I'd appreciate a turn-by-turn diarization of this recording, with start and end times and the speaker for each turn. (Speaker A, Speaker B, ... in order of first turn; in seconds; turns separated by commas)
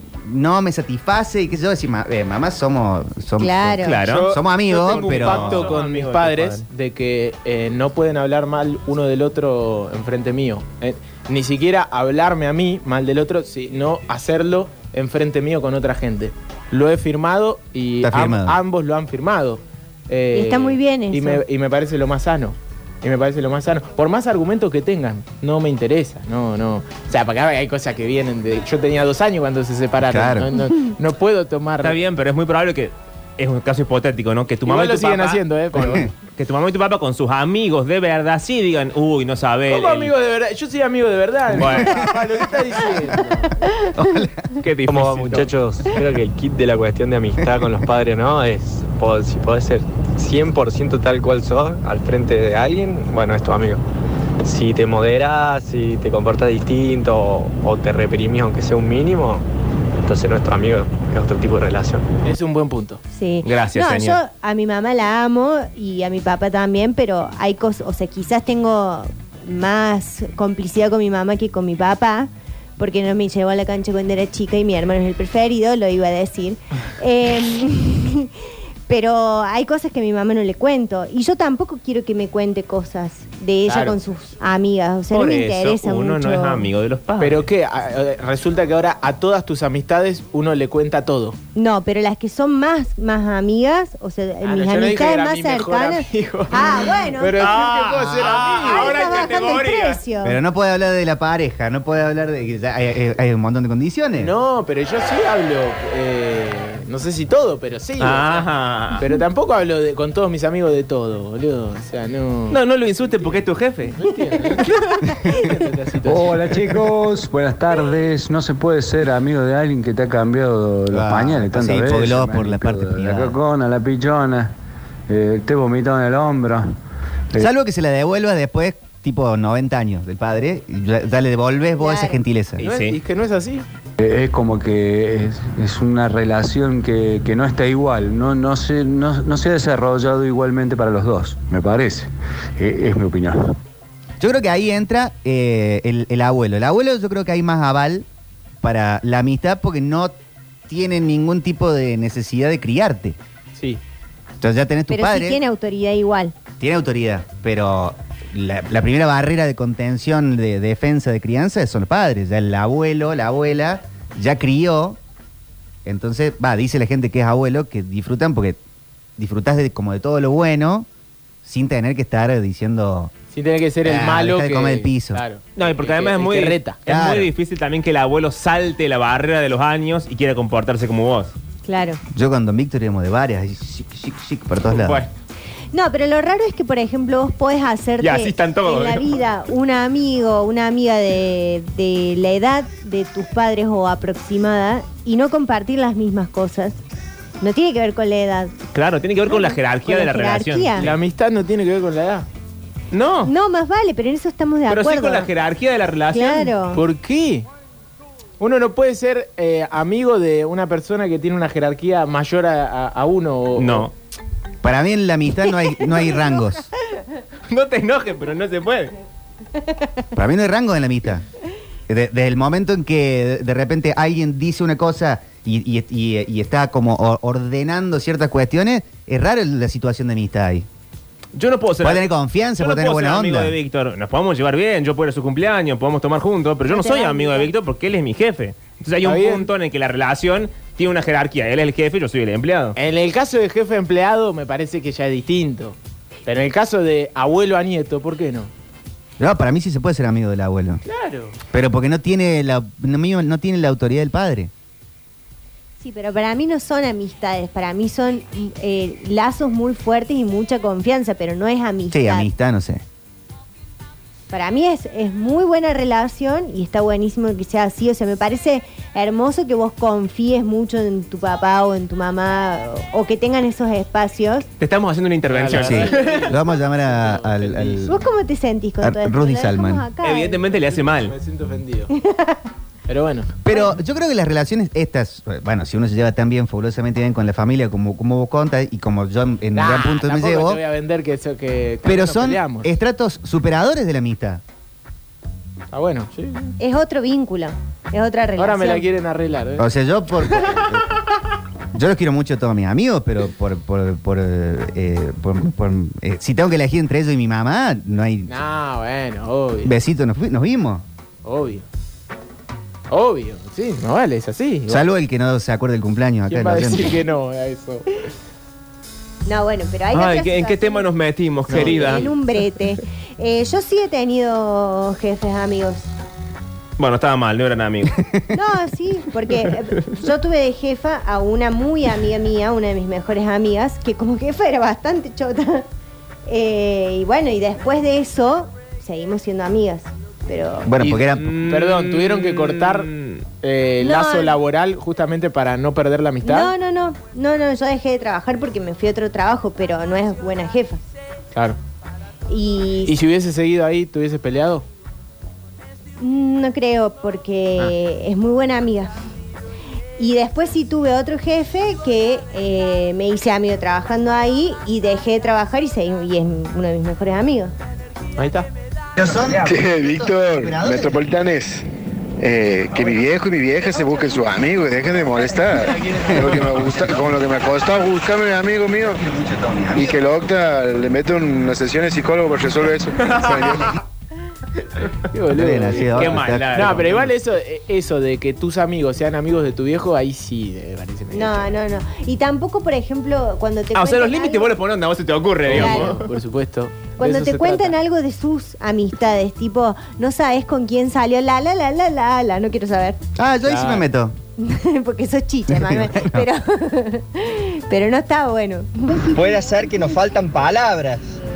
Speaker A: 0.2-5.7, Speaker B: 3.4-4.0, Speaker C: 3.8-6.6, Speaker D: 4.1-31.9, Speaker A: 18.0-18.6, Speaker B: 20.3-21.4, Speaker A: 30.0-30.5, Speaker C: 31.8-40.1, Speaker D: 34.6-36.1, Speaker A: 35.7-36.1, Speaker D: 39.7-43.5, Speaker C: 41.5-42.1, Speaker A: 43.9-44.5, Speaker C: 44.6-45.5, Speaker E: 44.9-53.8, Speaker E: 54.4-59.5, Speaker E: 60.0-62.0, Speaker D: 62.2-63.0, Speaker B: 63.1-78.3, Speaker C: 63.4-64.2, Speaker B: 78.9-86.7, Speaker D: 83.7-84.0, Speaker C: 85.1-87.5, Speaker D: 87.2-91.4, Speaker B: 91.5-97.4, Speaker D: 94.4-99.1, Speaker C: 97.4-100.0, Speaker B: 98.6-100.4, Speaker A: 100.2-104.3, Speaker D: 104.2-112.6, Speaker C: 108.0-109.0, Speaker C: 112.5-114.0, Speaker D: 114.0-116.7, Speaker F: 116.0-124.5, Speaker A: 120.9-123.4, Speaker F: 125.1-126.7, Speaker A: 127.4-132.6, Speaker B: 131.8-132.2, Speaker C: 132.6-133.0, Speaker D: 132.6-133.7, Speaker F: 134.0-143.5, Speaker A: 144.2-148.1, Speaker A: 148.6-150.1, Speaker A: 150.7-153.2, Speaker D: 153.5-153.8, Speaker A: 154.4-155.4, Speaker B: 154.9-156.3, Speaker A: 156.6-165.0, Speaker A: 165.8-168.6, Speaker A: 169.2-170.9, Speaker A: 171.4-173.1, Speaker D: 173.3-176.8, Speaker A: 173.8-175.2, Speaker C: 175.6-181.3, Speaker A: 176.9-177.3, Speaker B: 181.7-182.0, Speaker A: 182.1-185.1, Speaker C: 184.7-185.1, Speaker B: 185.7-196.8, Speaker C: 188.0-189.2, Speaker B: 197.4-198.5, Speaker C: 198.7-201.0, Speaker B: 199.3-200.9, Speaker D: 200.8-202.2, Speaker C: 202.9-203.3, Speaker B: 203.2-205.3, Speaker C: 204.7-206.5, Speaker B: 206.1-206.8, Speaker D: 206.7-207.5, Speaker D: 208.4-213.9, Speaker C: 213.6-213.9, Speaker A: 214.6-216.7, Speaker C: 217.5-218.9, Speaker A: 220.1-221.2, Speaker A: 221.9-230.7, Speaker C: 231.3-242.8, Speaker A: 231.8-233.6, Speaker B: 236.7-237.5, Speaker D: 239.0-239.5, Speaker D: 242.8-248.5, Speaker A: 249.2-250.8, Speaker D: 250.8-251.4, Speaker A: 251.5-254.5, Speaker B: 255.8-262.3, Speaker A: 261.9-262.8, Speaker B: 264.3-274.5, Speaker C: 274.6-276.4, Speaker D: 275.3-278.0, Speaker A: 275.5-277.9, Speaker B: 277.9-280.4, Speaker A: 278.8-279.8, Speaker C: 280.0-281.1, Speaker D: 280.7-281.9, Speaker B: 281.9-282.4, Speaker D: 282.9-283.4, Speaker A: 283.4-290.6, Speaker D: 289.5-292.7, Speaker A: 291.8-294.4, Speaker D: 295.7-296.5, Speaker B: 296.6-298.9, Speaker D: 298.4-299.7, Speaker A: 299.6-300.9, Speaker A: 301.7-308.3, Speaker D: 308.3-309.7, Speaker A: 309.6-310.8, Speaker D: 311.2-311.6, Speaker D: 312.9-314.8, Speaker A: 314.7-317.0, Speaker D: 316.3-318.1, Speaker B: 319.2-320.9, Speaker C: 319.9-322.1, Speaker D: 321.5-322.1, Speaker B: 321.5-325.9, Speaker C: 326.8-328.0, Speaker B: 328.3-335.6, Speaker B: 336.2-340.7, Speaker A: 340.6-341.3, Speaker D: 340.8-346.5, Speaker C: 341.2-343.2, Speaker B: 343.8-344.4, Speaker B: 346.2-350.8, Speaker D: 351.3-351.6, Speaker B: 352.3-352.9, Speaker D: 352.9-354.6, Speaker B: 356.0-358.9, Speaker B: 360.0-367.5, Speaker D: 368.2-368.5, Speaker A: 369.0-371.0, Speaker G: 369.3-371.6, Speaker G: 372.2-379.0, Speaker A: 375.7-377.0, Speaker A: 379.0-380.0, Speaker G: 379.7-383.7, Speaker C: 383.0-383.7, Speaker D: 385.1-391.5, Speaker A: 385.3-387.0, Speaker C: 385.8-387.1, Speaker B: 391.1-394.5, Speaker C: 393.7-396.1, Speaker D: 395.4-397.8, Speaker B: 395.5-395.9, Speaker B: 397.0-403.0, Speaker A: 403.1-404.2, Speaker D: 403.4-403.8, Speaker B: 404.4-409.0, Speaker A: 405.5-406.3, Speaker H: 409.1-411.2